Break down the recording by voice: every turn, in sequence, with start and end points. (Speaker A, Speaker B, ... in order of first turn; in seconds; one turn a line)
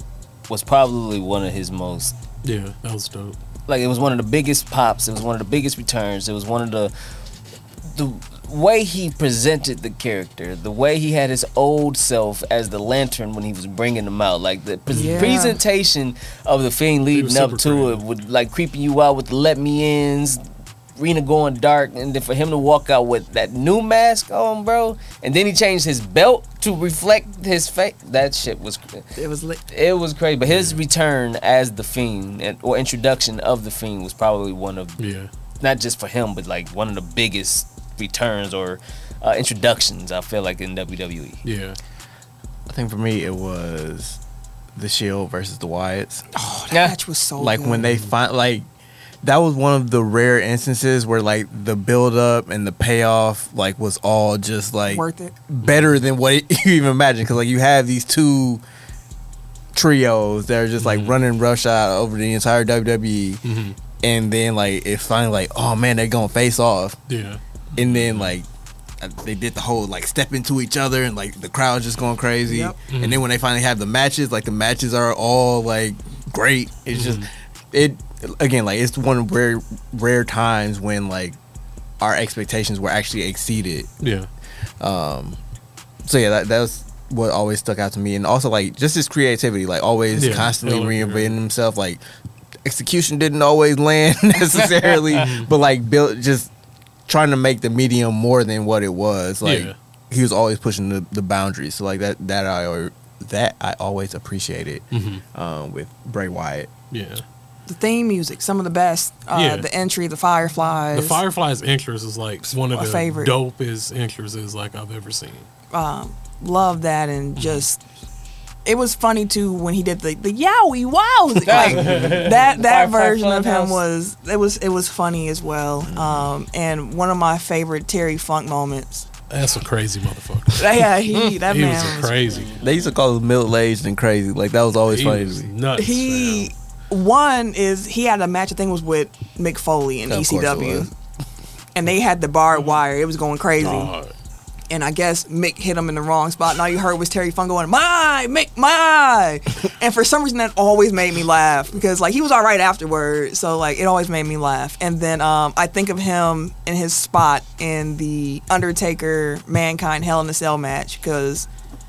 Speaker A: 0.5-2.1
Speaker B: 2.4-3.4
Speaker A: 3.7-6.9
Speaker A: 7.9-20.4
Speaker C: 14.9-15.6
Speaker B: 17.1-18.0
Speaker A: 21.0-29.1
Speaker C: 29.1-29.6
Speaker A: 29.7-35.0
Speaker B: 30.5-30.8
Speaker B: 35.0-35.3
Speaker A: 35.6-41.4
Speaker B: 41.4-41.8
Speaker D: 42.7-44.2
Speaker D: 44.8-46.2
Speaker C: 46.3-47.9
Speaker A: 46.7-47.0
Speaker D: 47.4-48.6
Speaker B: 47.8-48.1
Speaker D: 49.2-58.6
Speaker C: 54.9-55.3
Speaker D: 59.7-63.4
Speaker B: 60.8-61.2
Speaker B: 63.4-63.8
Speaker D: 64.0-67.0
Speaker B: 67.1-68.3
Speaker D: 67.8-68.5
Speaker D: 69.0-81.3
Speaker C: 72.5-72.8
Speaker B: 72.9-73.2
Speaker B: 76.9-77.3
Speaker D: 82.0-83.9
Speaker B: 84.0-84.3
Speaker D: 84.8-85.4
Speaker D: 86.0-92.0
Speaker B: 90.1-91.4
Speaker D: 92.6-96.5
Speaker B: 95.2-95.5
Speaker D: 97.1-106.7
Speaker B: 99.4-99.7
Speaker B: 104.9-105.2
Speaker B: 106.9-107.2
Speaker C: 107.7-111.2
Speaker B: 109.3-109.7
Speaker B: 110.9-115.5
Speaker C: 112.7-113.3
Speaker C: 115.7-117.8
Speaker B: 117.4-117.6
Speaker C: 118.6-129.1
Speaker A: 121.4-123.8
Speaker B: 121.5-122.4
Speaker D: 125.8-126.3
Speaker B: 129.3-132.5
Speaker C: 130.6-132.2
Speaker D: 132.5-135.5
Speaker B: 134.9-136.5
Speaker C: 135.8-140.9
Speaker D: 140.1-140.9
Speaker C: 141.7-143.9
Speaker B: 143.6-144.1
Speaker C: 144.7-161.5